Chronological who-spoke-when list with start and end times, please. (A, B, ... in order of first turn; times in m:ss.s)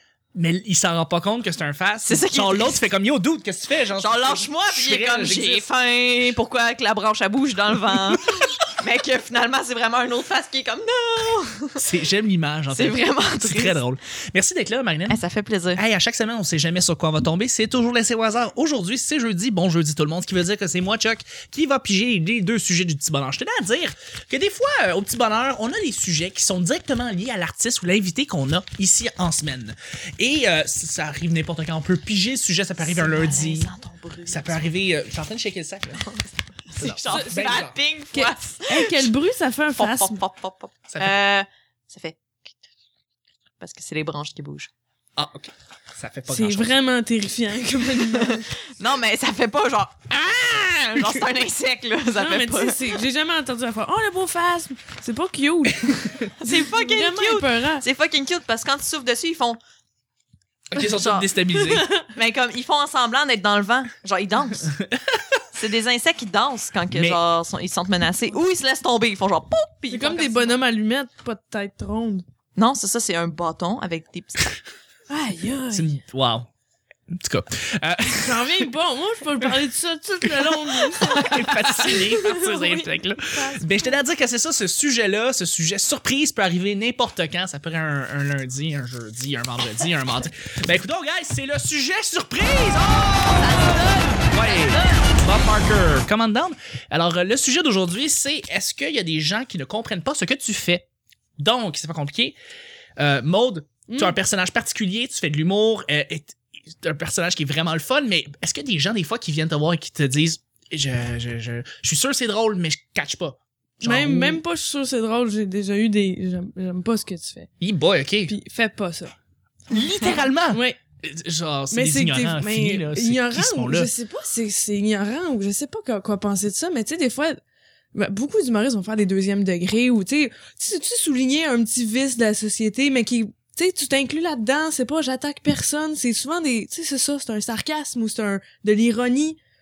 0:00.3-0:05.6 A
0:02.0-0:02.8 B
0:04.0-0:11.8 B
0:11.8-0:15.2 A
0:12.7-0:13.8 B
0:15.1-0:15.8 B
0:15.8-0:33.7 A
0:32.8-0:34.8 B
0:34.3-0:36.0 A
0:36.0-0:39.1 B
0:36.8-0:37.7 A
0:37.0-0:40.2 C
0:39.8-0:42.5 B
0:43.6-0:44.7 B
0:45.2-0:46.7 A
0:46.3-0:48.5 C
0:48.1-0:53.0 B
0:51.0-0:51.2 A
0:52.2-0:57.8 C
0:56.4-0:59.6 B
1:00.7-1:02.0 A
1:02.0-1:04.8 B
1:05.5-1:10.6 B
1:06.9-1:07.2 A
1:09.9-1:12.2 C
1:12.6-1:14.6 B
1:15.1-1:16.0 C
1:15.7-1:16.5 A
1:17.1-1:18.6 A
1:18.2-1:23.9 C
1:20.8-1:40.8 A
1:33.4-1:35.2 B
1:41.4-1:42.3 A
1:43.0-1:54.4 A
1:43.9-1:44.2 C
1:53.8-1:57.5 C
1:57.6-1:58.3 A
1:58.3-1:59.1 C
1:59.7-2:03.9 A
2:00.5-2:00.8 C
2:01.7-2:07.4 C
2:07.9-2:19.4 C